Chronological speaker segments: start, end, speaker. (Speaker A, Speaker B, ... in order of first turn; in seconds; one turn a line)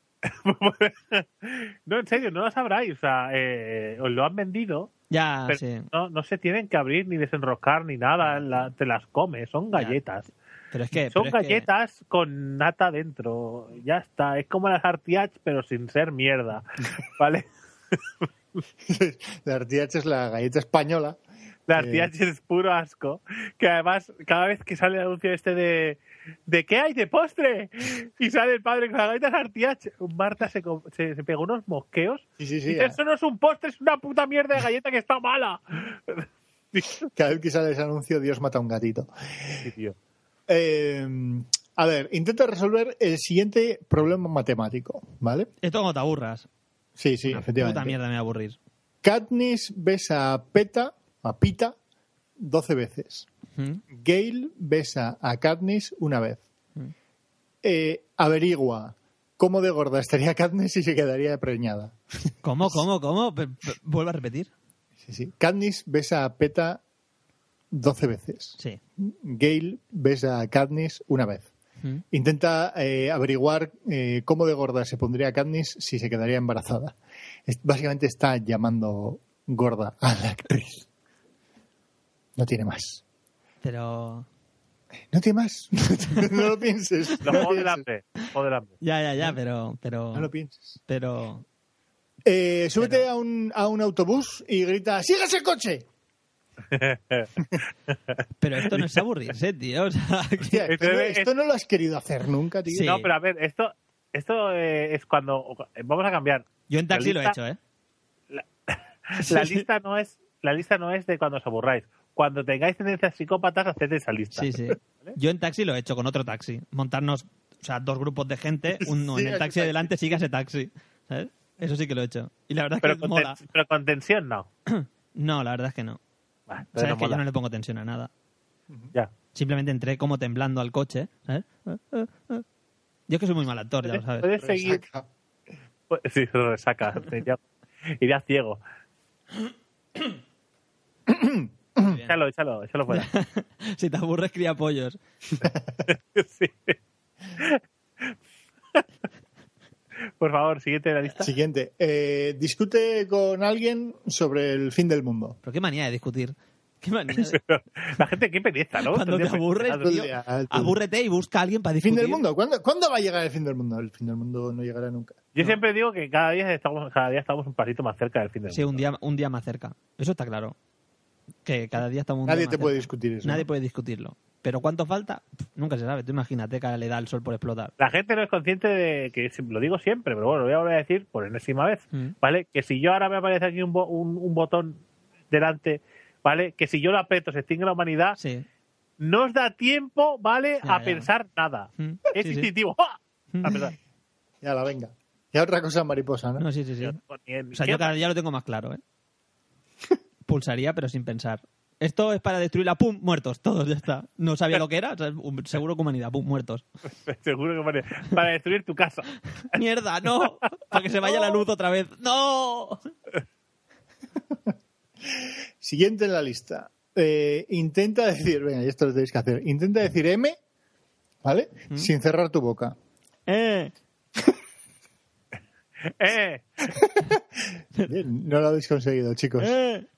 Speaker A: 0.2-4.9
Speaker B: 5.1-5.9
Speaker A: 5.5-10.3
Speaker B: 8.2-8.7
Speaker B: 10.7-11.7
Speaker A: 11.0-18.0
Speaker C: 18.8-21.2
Speaker A: 21.7-37.0
Speaker C: 21.7-22.1
Speaker C: 32.4-33.0
Speaker C: 37.1-39.6
Speaker A: 39.6-40.0
Speaker C: 40.5-45.5
Speaker B: 45.6-46.5
Speaker C: 47.0-48.0
Speaker B: 47.3-48.6
Speaker C: 49.0-51.8
Speaker C: 52.4-53.3
Speaker B: 53.6-53.8
Speaker C: 53.9-56.4
Speaker C: 57.6-62.8
Speaker B: 62.4-64.5
Speaker C: 65.0-66.8
Speaker C: 67.7-71.5
Speaker C: 72.1-80.9
Speaker C: 82.4-83.0
Speaker B: 83.6-84.3
Speaker C: 85.1-87.8
Speaker A: 87.2-88.8
Speaker B: 88.8-90.3
Speaker C: 90.1-90.8
Speaker B: 90.9-91.4
Speaker C: 92.2-95.8
Speaker A: 96.7-97.3
Speaker B: 98.4-100.7
Speaker C: 100.4-102.9
Speaker A: 100.7-101.3
Speaker B: 102.7-103.1
Speaker A: 102.8-107.3
Speaker B: 106.7-107.6
Speaker A: 108.3-115.2
Speaker B: 109.2-109.6
Speaker B: 114.3-123.4
Speaker C: 118.8-119.9
Speaker A: 122.8-124.5
Speaker B: 124.7-126.0
Speaker A: 126.5-127.2
Speaker B: 126.7-128.1
Speaker B: 129.3-132.4
Speaker B: 133.1-134.3
Speaker A: 133.8-134.8
Speaker C: 134.4-135.1
Speaker A: 135.9-137.4
Speaker A: 138.0-138.6
Speaker C: 141.1-142.0
Speaker B: 141.8-142.1
Speaker A: 142.1-143.1
Speaker B: 142.9-145.0
Speaker C: 145.4-145.8
Speaker A: 145.9-146.8
Speaker A: 147.3-147.6
Speaker A: 150.2-151.3
Speaker C: 151.2-155.4
Speaker B: 155.4-157.4
Speaker A: 157.3-159.9
Speaker B: 158.8-162.2
Speaker C: 159.8-160.8
Speaker C: 161.8-165.2
Speaker A: 165.3-168.8
Speaker B: 168.5-170.6
Speaker B: 171.4-177.7
Speaker C: 172.2-173.5
Speaker A: 177.8-188.2
Speaker B: 188.2-188.4
Speaker A: 189.0-193.7
Speaker B: 190.6-191.1
Speaker B: 191.8-192.5
Speaker B: 193.3-193.6
Speaker C: 194.4-196.4
Speaker B: 196.4-197.0
Speaker A: 196.8-198.0
Speaker B: 197.5-198.8
Speaker B: 200.3-206.6
Speaker A: 207.1-209.1
Speaker B: 209.5-212.9
Speaker C: 215.1-220.4
Speaker C: 221.2-222.7
Speaker B: 223.3-223.7
Speaker A: 226.0-226.6
Speaker C: 226.7-229.6
Speaker B: 229.4-229.9